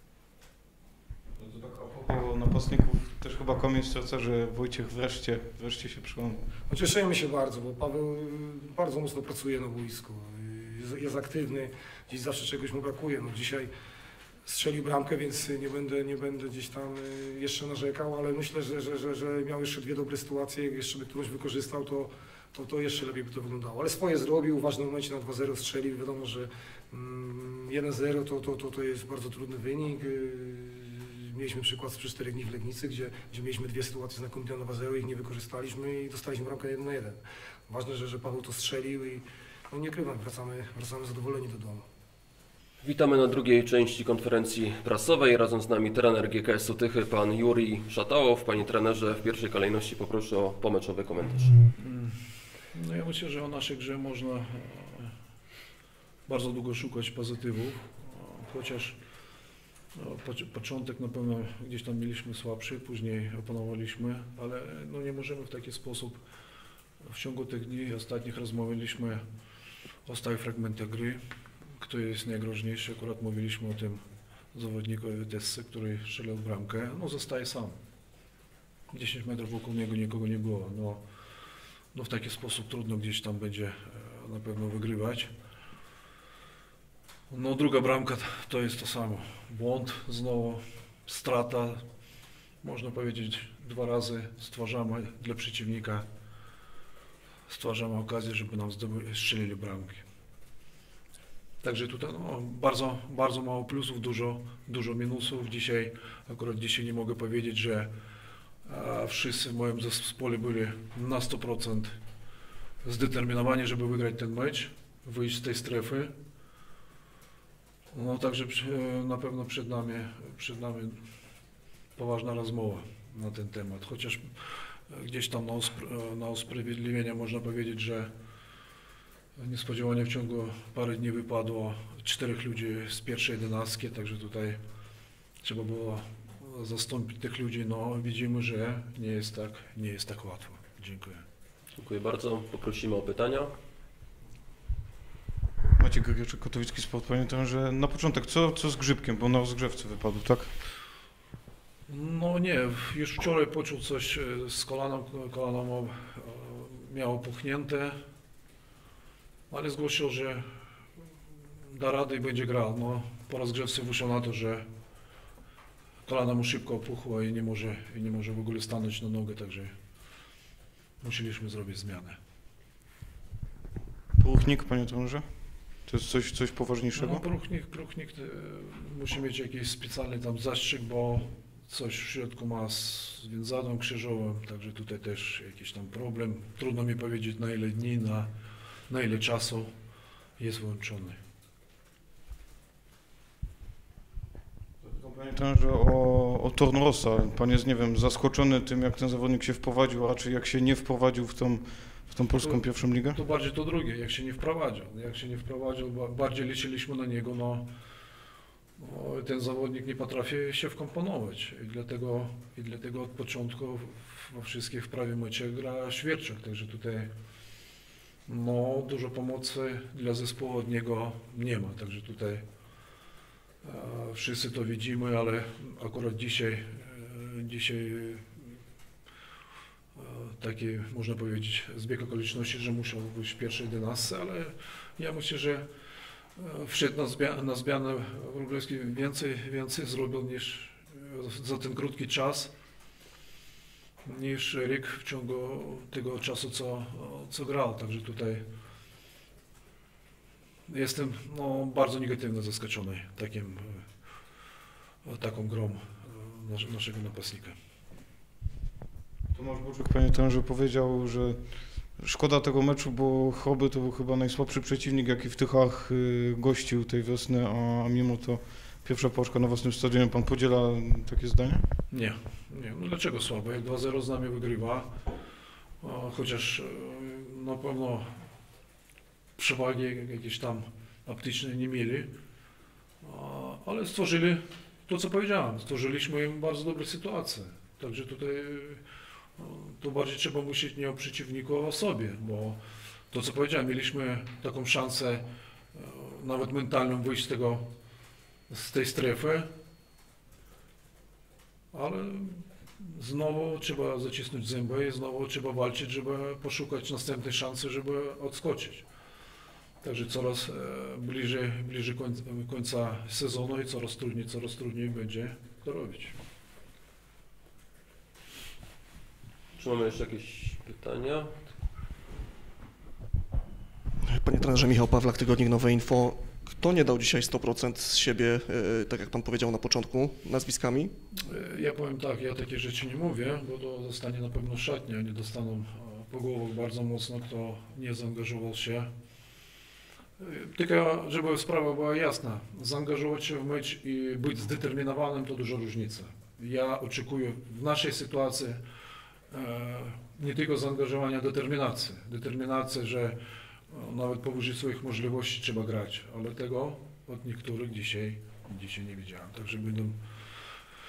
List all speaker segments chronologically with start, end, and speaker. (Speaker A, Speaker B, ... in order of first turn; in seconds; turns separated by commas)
Speaker A: 1.4-6.4, Speaker B: 6.7-13.7, Speaker B: 14.4-41.9, Speaker C: 42.8-51.7, Speaker D: 51.8-55.2, Speaker D: 56.3-59.0, Speaker D: 59.9-66.2, Speaker D: 67.0-69.2, Speaker D: 70.0-71.2, Speaker D: 71.8-77.8, Speaker D: 78.9-81.0, Speaker D: 81.9-85.3, Speaker D: 87.3-91.8, Speaker D: 92.6-96.1, Speaker D: 97.5-100.0, Speaker D: 101.6-107.9, Speaker D: 108.6-112.0, Speaker D: 112.8-116.1, Speaker D: 117.9-121.0, Speaker D: 122.0-128.1, Speaker D: 129.4-134.6, Speaker D: 135.4-141.2, Speaker C: 141.8-143.5, Speaker A: 145.8-150.5, Speaker D: 151.9-158.0, Speaker D: 159.5-160.5, Speaker D: 161.6-164.7, Speaker D: 166.1-169.8, Speaker D: 171.0-172.2, Speaker A: 174.2-177.2, Speaker D: 176.9-188.3, Speaker D: 188.9-189.7, Speaker D: 190.4-191.2, Speaker A: 194.8-203.2, Speaker D: 202.4-207.7, Speaker D: 208.8-217.1, Speaker D: 218.3-222.4, Speaker D: 223.6-228.5, Speaker D: 229.9-235.7, Speaker D: 236.3-242.5, Speaker D: 244.0-248.4, Speaker D: 250.7-254.1, Speaker D: 255.0-257.6, Speaker A: 259.3-271.8, Speaker D: 271.9-275.0, Speaker D: 275.8-278.3, Speaker D: 279.4-282.1, Speaker D: 283.0-297.7, Speaker D: 298.5-299.5, Speaker D: 301.7-308.9, Speaker D: 309.8-316.2, Speaker C: 319.6-321.3, Speaker E: 324.1-330.9, Speaker D: 331.2-338.9, Speaker D: 340.2-348.6, Speaker D: 349.3-360.6